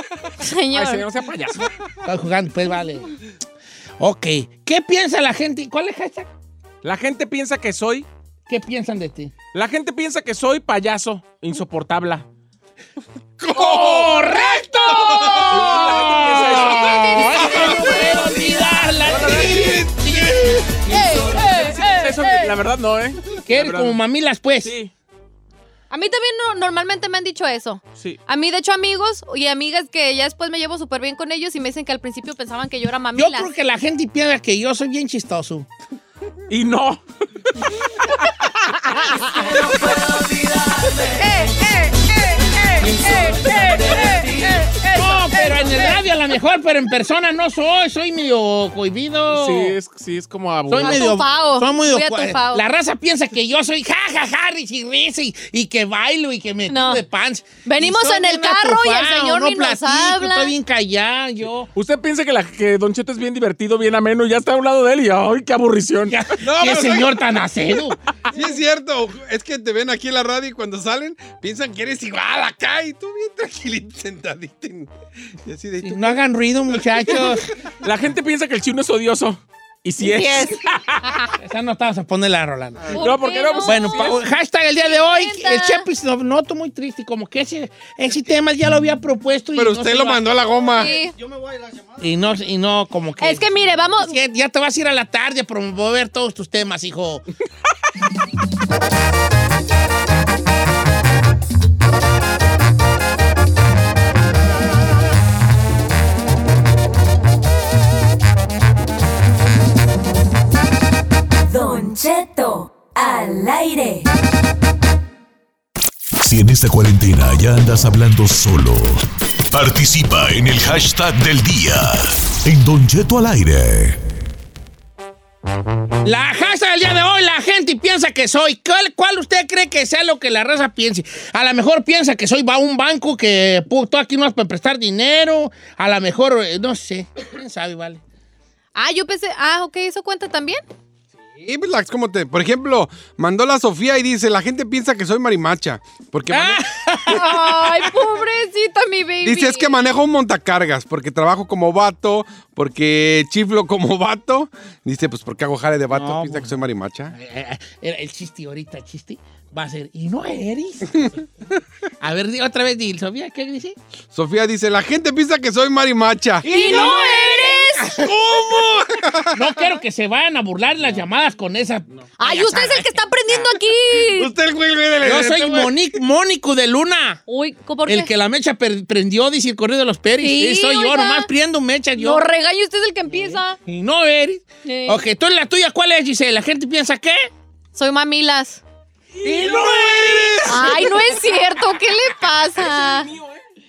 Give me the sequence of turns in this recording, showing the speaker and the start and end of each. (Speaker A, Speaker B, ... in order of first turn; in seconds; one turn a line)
Speaker A: 0.4-1.1
Speaker B: 0.7-1.7
Speaker C: 2.0-3.1
Speaker C: 4.0-6.3
Speaker B: 6.8-8.1
Speaker C: 8.5-9.3
Speaker B: 9.5-12.3
Speaker D: 13.4-15.7
Speaker C: 13.5-21.4
Speaker B: 15.6-17.4
Speaker D: 17.3-17.9
Speaker A: 17.7-18.5
Speaker B: 19.1-19.6
Speaker D: 19.1-20.9
Speaker A: 20.9-22.5
Speaker B: 21.4-24.0
Speaker C: 23.5-24.8
Speaker B: 24.6-24.9
Speaker A: 25.9-33.5
Speaker C: 33.1-35.7
Speaker B: 36.5-37.0
Speaker A: 39.7-40.1
Speaker A: 41.0-45.7
Speaker C: 44.8-49.8
Speaker B: 49.3-51.1
Speaker C: 50.7-61.7
Speaker A: 50.8-52.6
Speaker A: 56.7-57.0
Speaker A: 57.6-60.5
Speaker B: 61.8-66.2
Speaker C: 66.1-68.0
Speaker D: 66.4-67.4
Speaker D: 68.3-74.9
Speaker D: 75.5-77.3
Speaker C: 75.8-77.5
Speaker B: 77.8-81.1
Speaker A: 80.0-81.3
Speaker C: 81.4-83.1
Speaker A: 82.9-84.2
Speaker B: 83.0-84.2
Speaker C: 83.6-90.3
Speaker A: 84.8-85.9
Speaker D: 89.5-91.0
Speaker A: 90.7-91.1
Speaker C: 92.0-93.5
Speaker A: 93.2-94.2
Speaker C: 94.0-97.2
Speaker E: 111.5-114.1
Speaker F: 116.2-119.0
Speaker F: 119.5-124.0
Speaker C: 126.0-138.0
Speaker A: 138.8-140.6
Speaker D: 141.4-146.6
Speaker C: 146.3-147.9
Speaker A: 147.1-149.8
Speaker D: 149.2-157.2
Speaker C: 155.9-156.6
Speaker C: 157.1-161.2
Speaker C: 162.0-163.8
Speaker D: 164.1-166.5
Speaker A: 166.4-168.0
Speaker C: 166.4-168.1
Speaker D: 168.0-169.5
Speaker C: 169.3-173.0
Speaker A: 172.2-174.3
Speaker D: 174.1-175.8
Speaker C: 175.0-177.2
Speaker A: 177.3-178.1
Speaker C: 177.9-182.2
Speaker A: 180.2-181.3
Speaker A: 182.0-183.6
Speaker C: 183.1-187.3
Speaker A: 184.6-185.0
Speaker A: 187.7-188.6
Speaker B: 189.1-191.4
Speaker C: 189.3-189.6
Speaker D: 189.5-190.8
Speaker A: 190.4-193.1
Speaker B: 192.6-193.4